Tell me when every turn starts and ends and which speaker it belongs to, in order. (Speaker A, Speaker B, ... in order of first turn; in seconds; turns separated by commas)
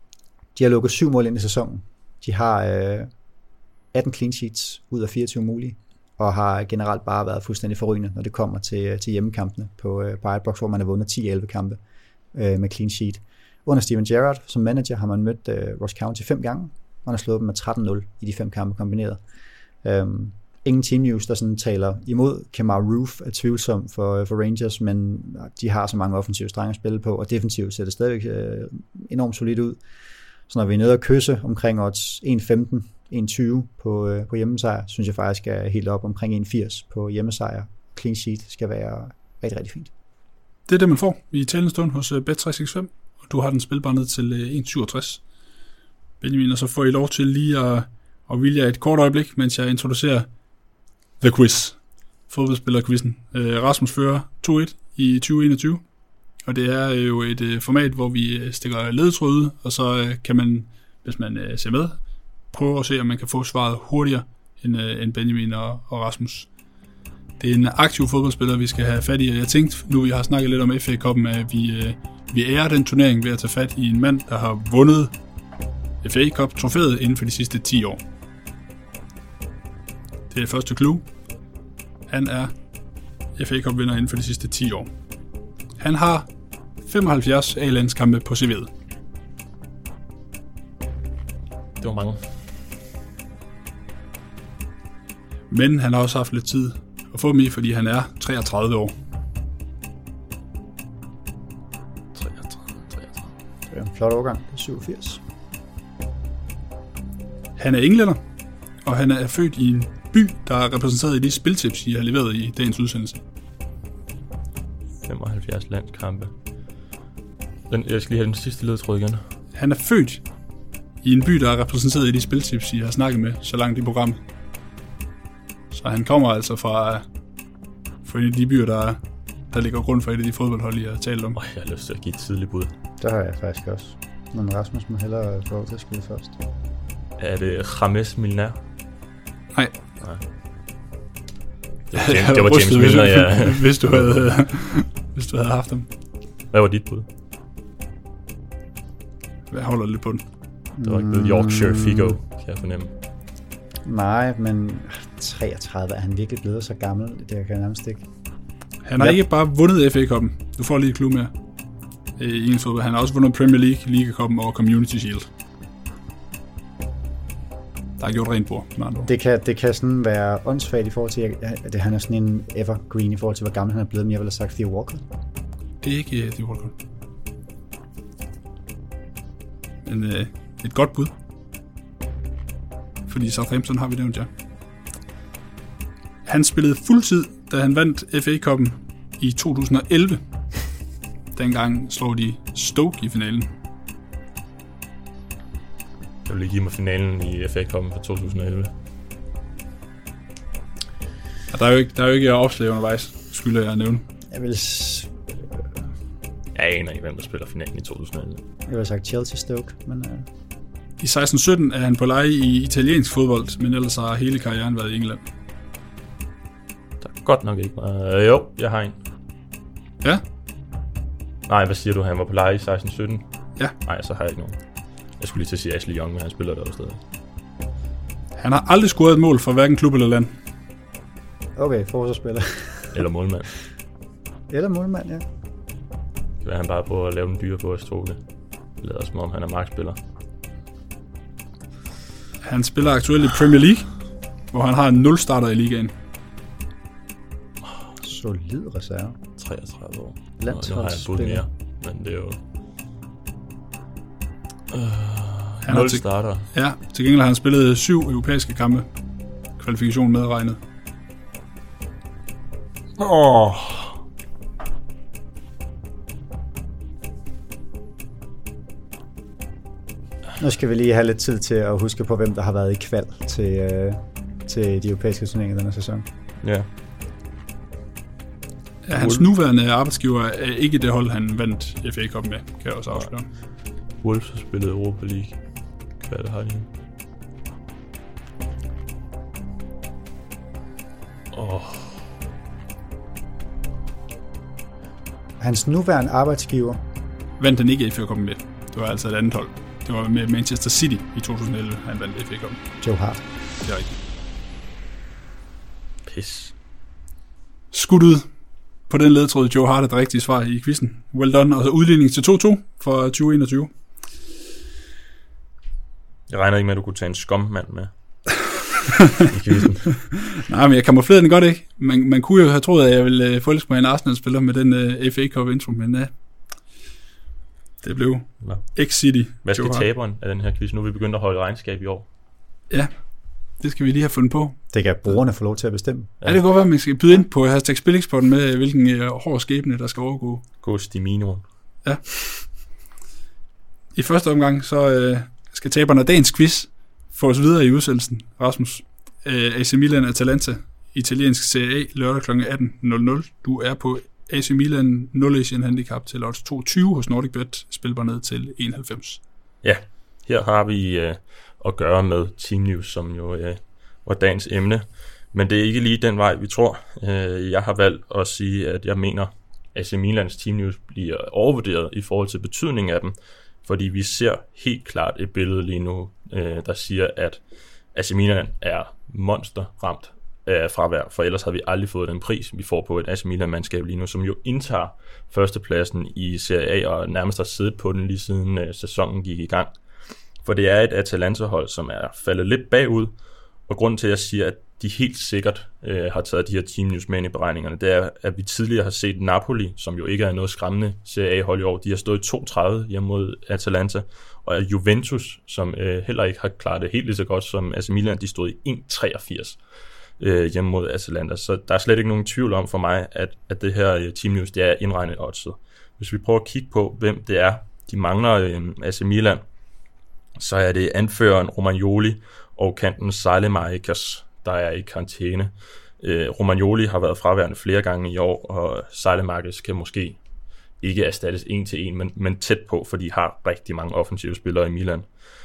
Speaker A: 0.5-3.1, Speaker A: 3.9-11.8, Speaker A: 12.3-19.2, Speaker A: 19.8-29.8, Speaker A: 30.5-39.9, Speaker B: 40.7-45.2, Speaker B: 46.2-50.3, Speaker B: 51.2-55.8, Speaker B: 56.4-62.0, Speaker B: 62.5-66.5, Speaker B: 67.4-75.1, Speaker B: 76.0-78.0, Speaker B: 80.3-81.1, Speaker B: 82.1-82.6, Speaker B: 83.3-84.9, Speaker B: 85.8-86.3, Speaker B: 86.8-88.7, Speaker C: 91.8-92.2, Speaker B: 95.5-98.9, Speaker C: 102.1-103.3, Speaker A: 103.7-105.2, Speaker B: 107.6-108.2, Speaker B: 108.8-113.2, Speaker C: 115.0-116.3, Speaker C: 117.7-119.2, Speaker B: 119.5-120.2, Speaker B: 121.0-124.2, Speaker B: 125.7-127.0, Speaker B: 128.0-131.4, Speaker C: 131.3-132.7, Speaker A: 133.0-136.3, Speaker C: 137.2-138.6, Speaker C: 140.0-140.2, Speaker C: 141.9-144.1, Speaker B: 142.0-145.9, Speaker C: 146.5-147.1, Speaker B: 149.5-150.2, Speaker A: 150.8-152.2, Speaker C: 150.8-152.9, Speaker A: 153.8-158.0, Speaker B: 158.8-161.3, Speaker B: 162.2-165.3, Speaker B: 168.0-169.1, Speaker A: 169.1-175.0, Speaker B: 175.8-176.7, Speaker B: 179.8-181.1, Speaker B: 183.1-184.3, Speaker B: 186.2-190.7, Speaker B: 191.3-193.5, Speaker C: 196.2-198.7, Speaker B: 201.5-204.1, Speaker A: 204.3-205.7, Speaker C: 206.5-208.4, Speaker A: 208.7-210.3, Speaker B: 211.0-215.2, Speaker C: 217.0-219.0, Speaker C: 221.5-224.6, Speaker C: 225.2-227.0, Speaker B: 228.4-230.3, Speaker A: 231.6-233.0, Speaker C: 232.9-233.5, Speaker A: 234.5-235.2, Speaker C: 236.4-238.2, Speaker C: 238.8-240.0, Speaker B: 242.4-245.9, Speaker A: 248.0-249.2, Speaker C: 249.4-252.4, Speaker A: 250.4-251.4, Speaker C: 254.7-256.5, Speaker B: 255.6-258.9, Speaker B: 259.6-260.6, Speaker C: 263.0-264.0, Speaker A: 270.4-276.1, Speaker C: 276.4-276.7, Speaker B: 278.8-283.3, Speaker C: 278.9-279.2, Speaker C: 284.0-285.4, Speaker C: 286.0-286.7, Speaker C: 291.3-292.0, Speaker A: 295.4-296.8, Speaker B: 297.4-302.6, Speaker A: 302.8-303.2, Speaker B: 303.6-303.9, Speaker C: 306.1-306.5, Speaker B: 307.7-308.3, Speaker B: 308.9-313.7, Speaker C: 316.3-317.9, Speaker C: 319.3-320.1, Speaker B: 320.3-326.1, Speaker B: 327.8-329.9, Speaker C: 328.4-332.1, Speaker B: 333.6-334.6, Speaker A: 334.7-336.1, Speaker B: 336.2-340.4, Speaker C: 340.6-341.4, Speaker B: 341.8-342.5, Speaker B: 343.9-359.2, Speaker C: 359.6-377.4, Speaker C: 377.9-389.7, Speaker C: 390.4-393.1, Speaker C: 393.7-409.6, Speaker C: 410.2-419.4, Speaker C: 420.4-430.2, Speaker C: 430.8-435.1